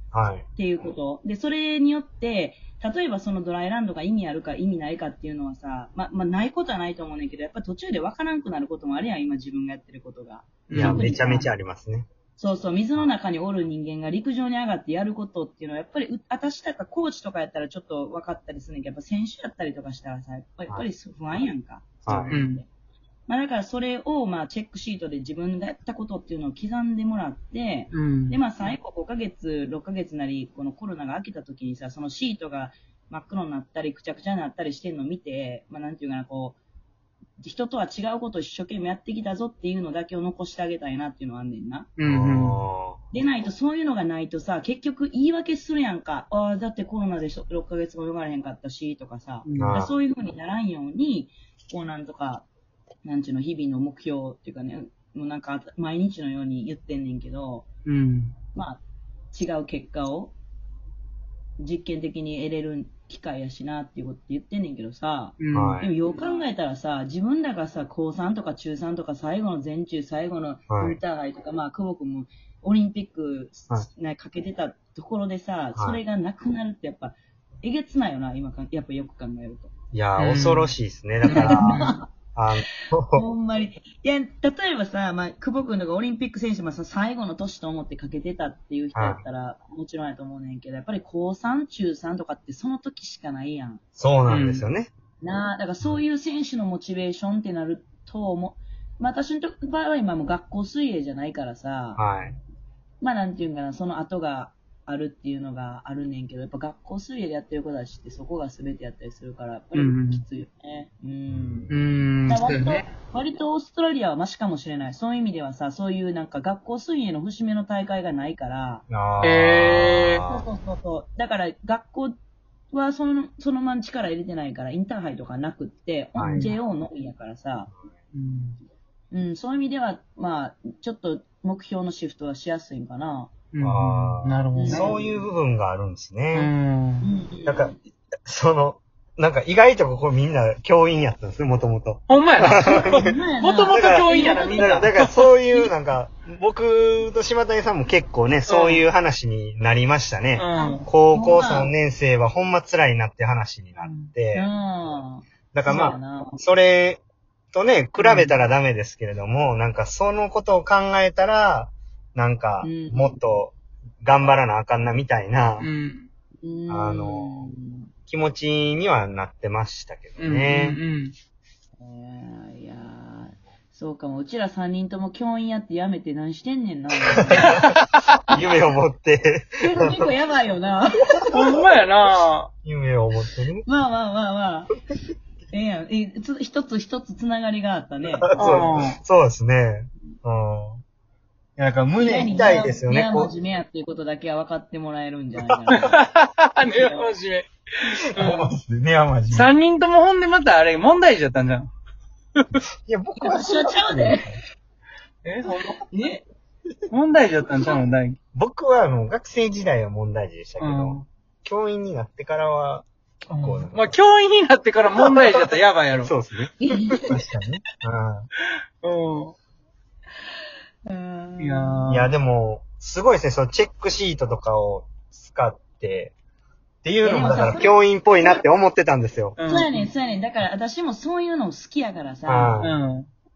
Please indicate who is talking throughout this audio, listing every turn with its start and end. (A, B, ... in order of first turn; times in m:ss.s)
0:00.1-0:00.4 A
0:00.6-0:11.5 B
0:10.7-0:11.2 C
0:10.7-0:12.1 A
0:12.4-0:22.6 B
0:22.1-0:22.4 A
0:22.3-0:22.6 C
0:23.3-0:36.6 B
0:27.9-0:28.4 C
0:37.4-0:41.9 B
0:42.0-0:42.6 C
0:42.0-0:43.0 A
0:43.1-0:52.5 B
0:49.4-0:49.8 C
0:49.6-0:49.9 A
0:53.0-0:57.7 B
0:57.9-0:58.4 C
0:58.6-0:58.8 B
0:59.3-1:00.3 B
1:01.6-1:19.7 B
1:05.4-1:05.8 C
1:05.5-1:05.9 A
1:10.7-1:11.0 A
1:19.9-1:23.2 A
1:20.2-1:20.7 C
1:21.3-1:21.9 C
1:21.3-1:22.1 B
1:23.1-1:33.8 B
1:29.0-1:29.2 A
1:34.0-1:34.9 A
1:34.3-1:34.7 C
1:35.2-1:42.0 B
1:42.0-1:42.4 A
1:43.0-1:51.7 B
1:49.7-1:50.2 C
1:51.3-1:51.8 A
1:51.7-1:52.9 C
1:52.3-1:58.8 B
1:58.9-2:00.5 A
1:59.2-2:00.2 C
2:00.2-2:02.2 B
2:02.7-2:07.7 B
2:06.2-2:06.5 A
2:06.3-2:06.6 C
2:08.1-2:08.6 C
2:09.1-2:13.3 B
2:13.5-2:14.9 C
2:13.6-2:16.5 A
2:14.6-2:15.2 B
2:16.3-2:17.1 C
2:17.0-2:17.8 B
2:17.4-2:17.7 A
2:18.3-2:23.1 A
2:22.1-2:25.7 C
2:22.6-2:24.8 B
2:23.7-2:34.5 A
2:28.5-2:28.9 C
2:30.4-2:30.9 C
2:30.6-2:31.7 B
2:33.8-2:34.1 C
2:34.3-2:36.4 B
2:35.5-2:37.0 A
2:37.5-2:45.7 A
2:38.0-2:38.4 C
2:42.6-2:43.1 B
2:45.6-2:46.1 C
2:46.4-2:47.9 B
2:46.7-2:47.5 A
2:48.1-2:50.8 A
2:50.2-2:51.1 C
2:51.8-2:57.6 B
2:57.1-3:00.1 A
2:57.4-2:58.2 C
2:59.6-3:01.4 B
3:01.3-3:02.5 C
3:02.6-3:03.7 A
3:03.7-3:04.7 B
3:05.5-3:08.3 B
3:08.3-3:10.8 A
3:08.4-3:09.0 C
3:11.6-3:13.3 A
3:12.0-3:16.0 B
3:15.4-3:15.9 A
3:15.7-3:18.5 C
3:16.7-3:17.0 B
3:18.1-3:19.5 A
3:19.3-3:21.7 C
3:22.8-3:24.4 A
3:23.2-3:24.3 B
3:25.2-3:25.8 C
3:25.9-3:26.3 B
3:26.9-3:28.2 C
3:28.4-3:32.9 A
3:30.6-3:31.1 C
3:33.3-3:36.1 C
3:33.4-3:34.0 A
3:35.0-3:38.3 A
3:36.6-3:37.2 B
3:38.8-3:39.4 C
3:40.9-3:41.9 B
3:41.4-3:42.1 C
3:41.9-3:46.2 A
3:46.8-3:49.4 A
3:47.0-3:47.8 B
3:49.4-3:49.9 C
3:49.4-3:52.6 B
3:52.3-3:52.8 A
3:52.6-3:53.1 C